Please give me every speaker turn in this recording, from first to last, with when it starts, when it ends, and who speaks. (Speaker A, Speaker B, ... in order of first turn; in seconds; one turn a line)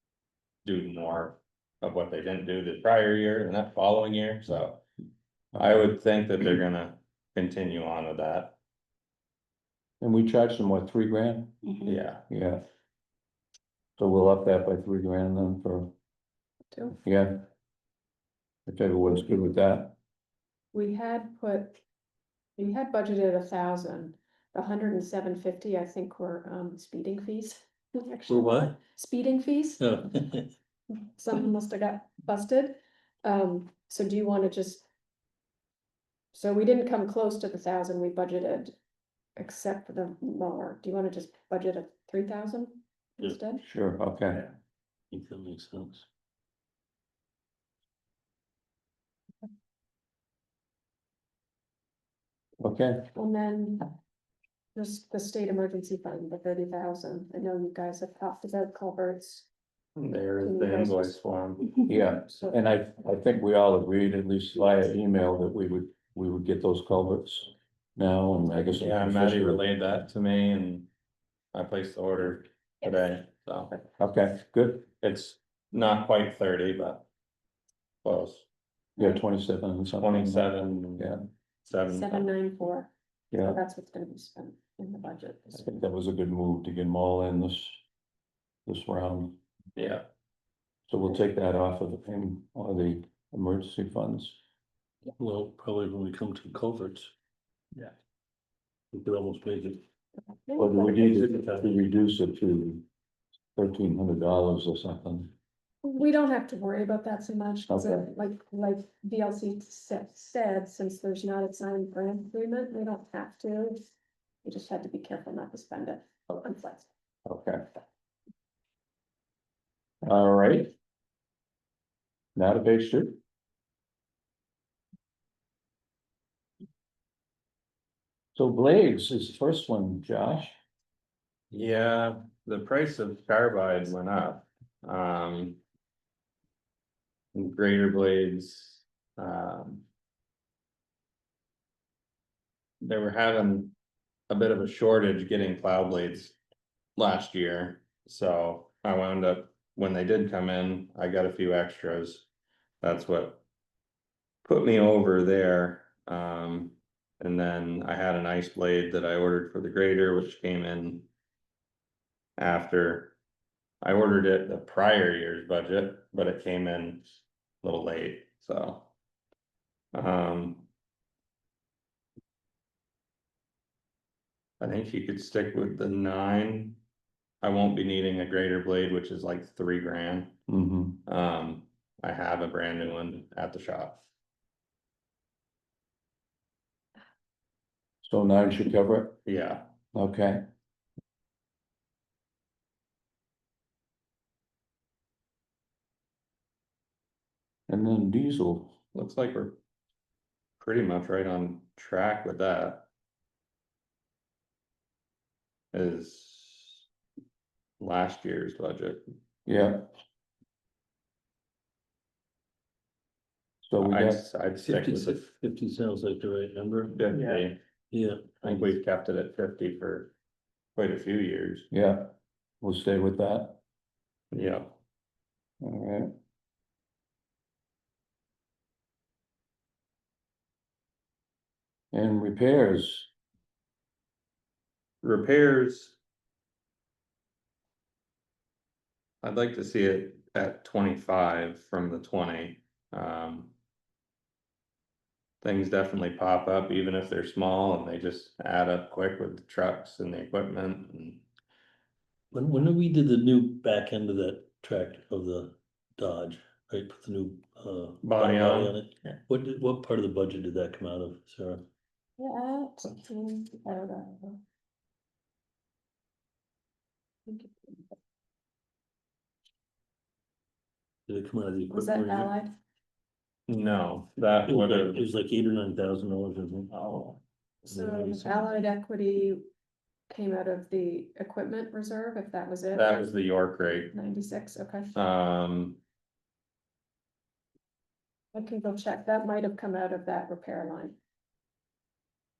Speaker A: 0.6-4.8
Speaker A: 5.5-8.6
Speaker B: 5.5-5.9
Speaker B: 10.0-11.6
Speaker A: 11.8-12.2
Speaker B: 12.3-12.6
Speaker B: 14.0-15.9
Speaker C: 16.7-17.0
Speaker B: 17.0-17.4
Speaker B: 18.7-19.9
Speaker C: 20.7-21.8
Speaker C: 22.6-29.9
Speaker D: 28.3-28.8
Speaker D: 29.8-30.5
Speaker C: 30.9-34.9
Speaker C: 36.3-38.8
Speaker C: 39.4-43.6
Speaker B: 43.6-44.5
Speaker D: 45.1-46.0
Speaker B: 52.6-53.1
Speaker C: 53.1-53.9
Speaker C: 54.7-59.5
Speaker A: 60.0-61.8
Speaker C: 60.4-61.2
Speaker B: 61.9-69.8
Speaker A: 68.5-70.9
Speaker A: 71.5-73.7
Speaker B: 74.0-74.9
Speaker A: 75.0-77.1
Speaker A: 78.0-78.5
Speaker B: 79.0-81.2
Speaker A: 80.0-81.1
Speaker A: 81.6-82.3
Speaker C: 81.9-85.6
Speaker B: 83.3-83.6
Speaker B: 85.6-87.8
Speaker B: 88.7-89.4
Speaker A: 89.8-90.0
Speaker B: 90.9-94.4
Speaker D: 95.2-97.1
Speaker D: 98.9-99.8
Speaker C: 100.4-101.0
Speaker B: 100.6-102.8
Speaker D: 100.9-101.8
Speaker B: 103.5-105.3
Speaker C: 105.8-113.8
Speaker B: 107.7-108.0
Speaker C: 114.4-116.9
Speaker B: 117.2-117.6
Speaker B: 120.0-120.7
Speaker B: 122.3-123.2
Speaker B: 128.3-130.6
Speaker A: 131.5-135.6
Speaker A: 137.3-139.8
Speaker A: 142.8-143.7
Speaker A: 144.3-146.4
Speaker A: 146.9-152.3
Speaker A: 152.8-153.4
Speaker A: 154.4-161.1
Speaker A: 162.4-163.2
Speaker A: 163.8-167.1
Speaker A: 167.6-168.9
Speaker A: 169.9-170.7
Speaker A: 174.6-176.8
Speaker A: 177.4-180.3
Speaker B: 180.5-181.0
Speaker A: 181.1-184.0
Speaker B: 188.0-189.2
Speaker A: 189.2-189.7
Speaker B: 189.9-190.4
Speaker B: 197.7-198.8
Speaker A: 198.9-199.6
Speaker A: 200.6-202.9
Speaker A: 205.7-206.8
Speaker A: 207.8-209.1
Speaker B: 209.4-209.9
Speaker B: 213.6-214.2
Speaker A: 213.8-215.2
Speaker D: 214.6-217.0
Speaker A: 216.9-217.6
Speaker D: 217.9-218.7
Speaker A: 218.4-220.1
Speaker A: 220.8-221.7
Speaker B: 221.7-223.6
Speaker A: 224.3-224.8
Speaker B: 225.6-226.1
Speaker B: 231.9-233.1
Speaker A: 235.0-236.0
Speaker A: 239.2-243.5
Speaker A: 245.4-251.2
Speaker D: 252.3-261.6
Speaker A: 258.0-259.2
Speaker C: 262.2-264.4
Speaker C: 267.3-267.9
Speaker D: 271.1-272.3
Speaker C: 271.7-272.5
Speaker A: 273.5-275.0
Speaker D: 274.4-276.7
Speaker A: 276.7-277.2
Speaker D: 277.7-278.5
Speaker C: 277.7-279.4
Speaker C: 280.1-283.1
Speaker A: 282.7-283.9
Speaker C: 283.9-284.9
Speaker A: 284.9-285.8
Speaker C: 288.3-291.0